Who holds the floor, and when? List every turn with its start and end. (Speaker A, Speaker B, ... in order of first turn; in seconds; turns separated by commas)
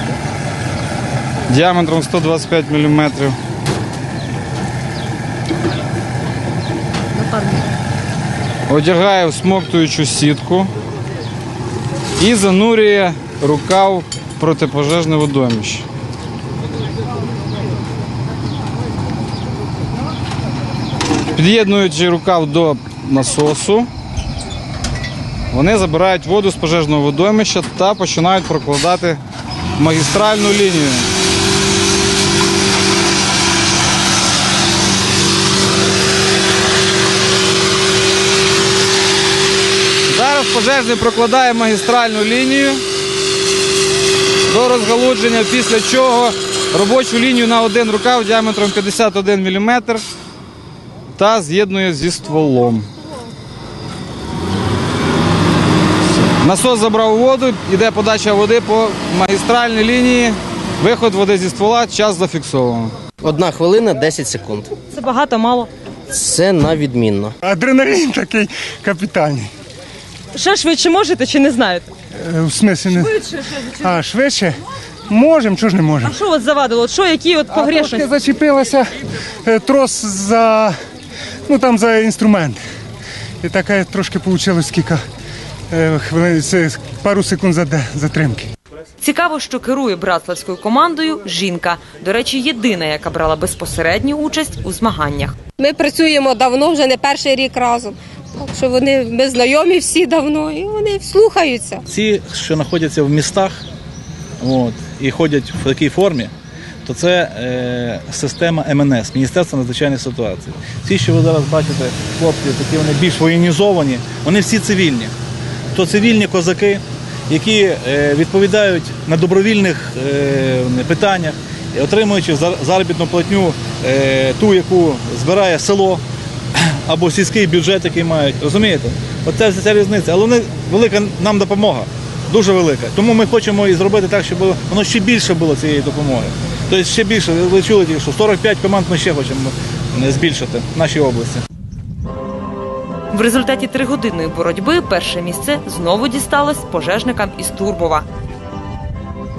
Speaker A: 1.5-3.4, Speaker B: 7.2-7.6, Speaker A: 8.7-10.7, Speaker A: 12.2-15.8, Speaker A: 21.3-23.9, Speaker A: 25.5-29.2, Speaker A: 29.8-31.1, Speaker A: 40.1-42.8, Speaker A: 44.5-50.0, Speaker A: 51.1-52.9, Speaker A: 56.1-62.9, Speaker C: 63.2-64.7, Speaker B: 64.9-65.7, Speaker C: 66.1-67.3, Speaker D: 67.4-69.5, Speaker B: 70.3-71.9, Speaker D: 72.2-73.1, Speaker B: 72.8-73.9, Speaker D: 73.8-74.5, Speaker D: 75.1-76.2, Speaker B: 76.0-78.1, Speaker D: 77.5-78.9, Speaker D: 79.4-80.7, Speaker D: 81.5-82.6, Speaker D: 83.4-85.0, Speaker D: 85.7-88.5, Speaker B: 89.0-95.3, Speaker E: 95.6-101.8, Speaker F: 101.8-103.5, Speaker F: 104.4-106.3, Speaker F: 106.8-115.1, Speaker F: 115.7-126.0, Speaker F: 126.6-141.4, Speaker B: 143.1-148.1